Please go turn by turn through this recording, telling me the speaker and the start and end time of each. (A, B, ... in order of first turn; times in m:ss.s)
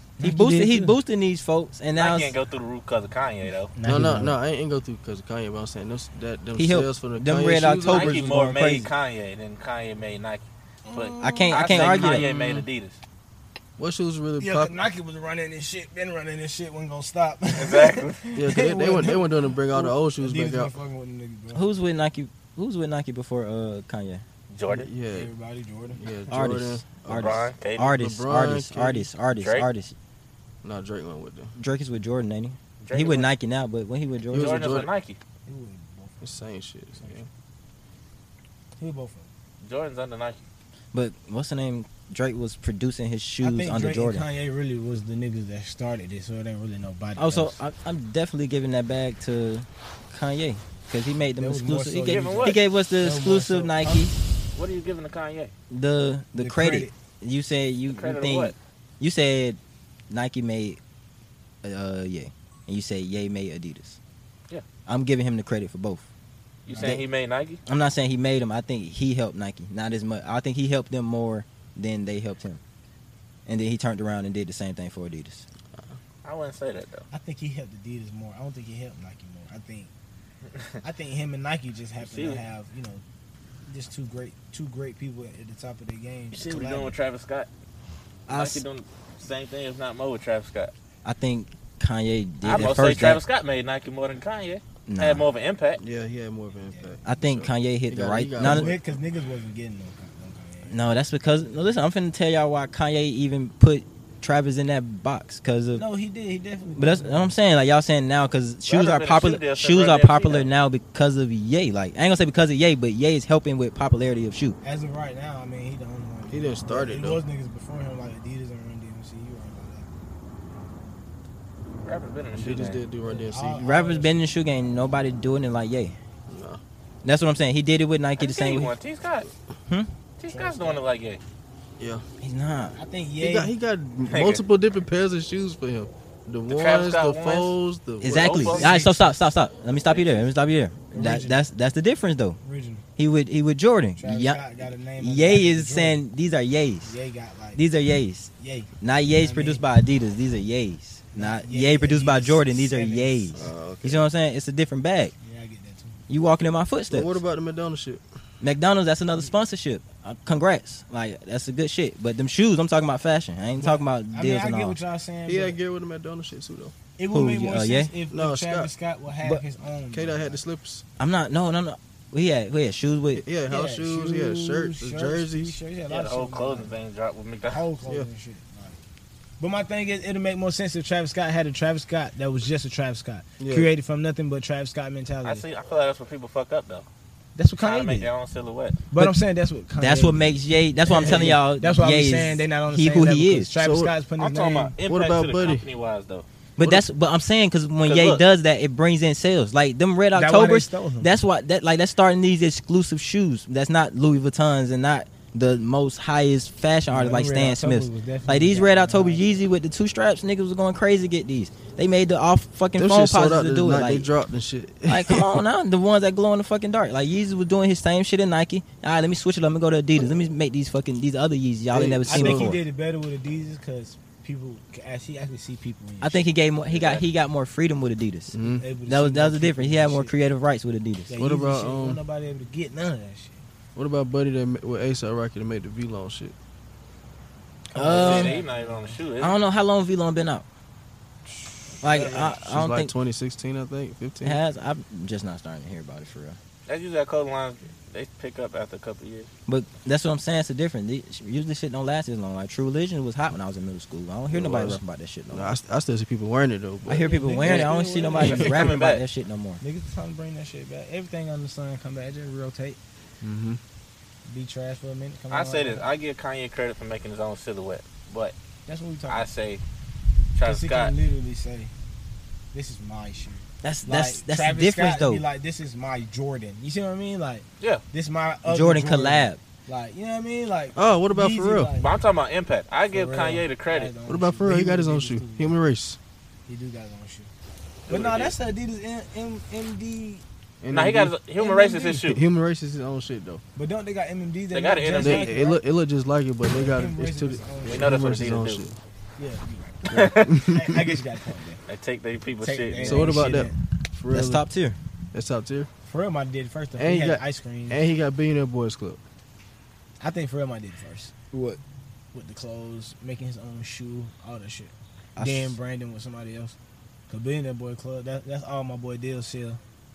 0:00.2-0:01.0 A
0:00.2-0:02.4 B
0:02.0-0:03.7 C
0:03.8-0:04.4 A
0:03.8-0:08.3 D
0:06.6-0:08.9 B
0:07.9-0:13.0 C
0:10.9-0:12.3 A
0:11.2-0:12.3 B
0:12.3-0:12.6 D
0:13.8-0:14.8 D
0:14.4-0:21.6 A
0:17.6-0:18.2 C
0:18.4-0:20.7 D
0:21.5-0:24.2 B
0:24.5-0:24.9 C
0:24.7-0:25.3 D
0:25.1-0:26.0 A
0:26.0-0:27.4 D
0:26.3-0:30.0 B
0:27.1-0:28.0 C
0:28.0-0:29.1 D
0:29.4-0:29.7 C
0:30.6-0:31.5 D
0:31.6-0:34.6 B
0:32.8-0:33.3 C
0:34.3-0:34.9 D
0:34.3-0:35.2 C
0:35.5-0:36.2 A
0:36.2-0:37.3 D
0:38.8-0:39.3 A
0:39.6-0:40.4 C
0:40.9-0:44.3 B
0:43.4-0:47.6 A
0:47.2-0:54.2 B
0:51.4-0:54.1 A
0:52.0-0:52.6 C
0:54.6-0:55.5 C
0:55.7-0:59.6 B
0:56.4-0:56.9 A
0:57.9-0:58.6 C
1:00.1-1:00.8 B
1:01.6-1:04.0 B
1:04.9-1:06.1 B
1:06.7-1:07.6 C
1:06.7-1:07.0 A
1:06.8-1:07.0 B
1:07.7-1:12.6 B
1:13.5-1:15.5 B
1:16.2-1:17.1 C
1:17.1-1:19.9 A
1:20.8-1:23.0 A
1:22.0-1:22.4 C
1:23.7-1:27.0 A
1:26.3-1:27.5 C
1:28.3-1:28.6 B
1:28.3-1:30.7 C
1:31.0-1:33.2 B
1:32.4-1:35.8 C
1:34.9-1:35.3 B
1:35.8-1:38.8 D
1:36.7-1:37.0 A
1:37.0-1:38.8 B
1:38.4-1:40.8 A
1:40.7-1:45.9 B
1:45.8-1:47.3 A
1:46.8-1:54.6 B
1:48.7-1:50.5 C
1:54.6-1:59.9 A
1:56.3-1:57.2 D
2:01.8-2:02.8 C
2:02.4-2:03.6 D
2:03.0-2:04.1 A
2:03.6-2:06.0 B
2:06.3-2:06.6 D
2:07.0-2:08.8 B
2:08.2-2:09.3 C
2:10.2-2:11.2 C
2:10.3-2:10.8 A
2:11.8-2:12.0 D
2:12.2-2:12.8 B
2:12.7-2:13.5 A
2:13.2-2:18.5 D
2:14.1-2:14.4 C
2:16.5-2:17.5 C
2:18.0-2:22.4 B
2:18.0-2:18.8 C
2:18.5-2:19.0 A
2:20.9-2:21.4 A
2:22.4-2:22.8 A
2:23.0-2:24.4 B
2:24.0-2:26.0 A
2:25.0-2:26.9 B
2:26.8-2:27.6 A
2:27.6-2:35.2 B
2:28.4-2:29.6 A
2:31.2-2:33.4 A
2:33.4-2:34.1 D
2:35.2-2:36.0 A
2:36.1-2:37.2 B
2:36.9-2:38.0 D
2:38.4-2:44.8 B
2:43.6-2:45.6 A
2:45.3-2:46.7 D
2:47.0-2:50.4 A
2:47.1-2:47.9 B
2:48.1-2:48.7 D
2:49.9-2:50.8 D
2:51.0-2:53.2 B
2:53.1-2:55.6 D
2:53.5-2:56.8 A
2:55.9-2:57.6 C
2:57.5-2:58.8 A
2:59.4-3:05.4 A
3:03.4-3:03.7 D
3:05.2-3:06.9 C
3:07.4-3:08.1 A
3:07.6-3:08.8 C
3:08.9-3:14.7 A
3:09.8-3:13.5 B
3:13.6-3:13.9 D
3:14.2-3:16.3 C
3:14.8-3:15.6 D
3:16.6-3:34.1 B
3:17.8-3:18.2 C
3:20.1-3:21.1 A
3:26.9-3:29.2 A
3:32.8-3:35.4 D
3:34.9-3:42.6 B
3:41.7-3:42.5 D
3:42.0-3:46.3 A
3:46.0-3:51.2 B
3:46.7-3:47.0 C
3:48.3-3:48.6 D
3:48.6-3:50.1 A
3:51.1-3:53.4 A
3:51.2-3:52.0 D
3:53.8-3:56.4 D
3:57.7-3:58.4 B
3:57.7-3:59.0 A
3:57.8-3:59.4 C
3:59.2-4:00.5 B
4:01.8-4:02.9 B
4:01.8-4:02.3 C
4:02.4-4:04.4 D
4:04.2-4:06.4 B
4:06.7-4:09.3 C
4:09.5-4:15.6 B
4:14.3-4:17.7 D
4:16.9-4:19.6 B
4:16.9-4:18.6 A
4:18.1-4:19.0 C
4:19.6-4:22.8 A
4:23.2-4:23.6 D
4:24.3-4:25.9 A
4:25.3-4:28.4 C
4:28.7-4:29.3 A
4:29.1-4:29.6 C
4:30.3-4:31.0 C
4:30.4-4:31.7 A
4:32.5-4:41.9 A
4:33.6-4:35.2 B
4:38.4-4:39.4 B
4:40.8-4:41.7 D
4:41.8-4:43.9 C
4:42.9-4:45.6 A
4:44.1-4:46.0 D
4:46.5-4:47.3 A
4:47.9-4:48.4 C
4:47.9-4:50.2 A
4:50.6-4:51.2 D
4:50.7-4:52.2 C
4:51.4-4:52.1 A
4:52.1-4:53.4 D
4:53.6-4:55.6 A
4:54.5-4:55.3 C
4:55.0-4:58.8 D
4:56.5-4:58.1 A
4:57.6-4:58.6 C
4:59.2-5:01.6 A
4:59.9-5:00.3 C
4:59.9-5:00.8 D
5:01.7-5:03.1 C
5:02.4-5:03.6 A
5:02.8-5:04.4 D
5:04.1-5:04.8 B
5:05.1-5:05.7 D
5:05.8-5:07.8 A
5:06.8-5:09.0 D
5:10.0-5:11.1 A
5:11.3-5:11.6 B
5:12.1-5:16.6 A
5:15.2-5:15.6 B
5:17.1-5:19.6 A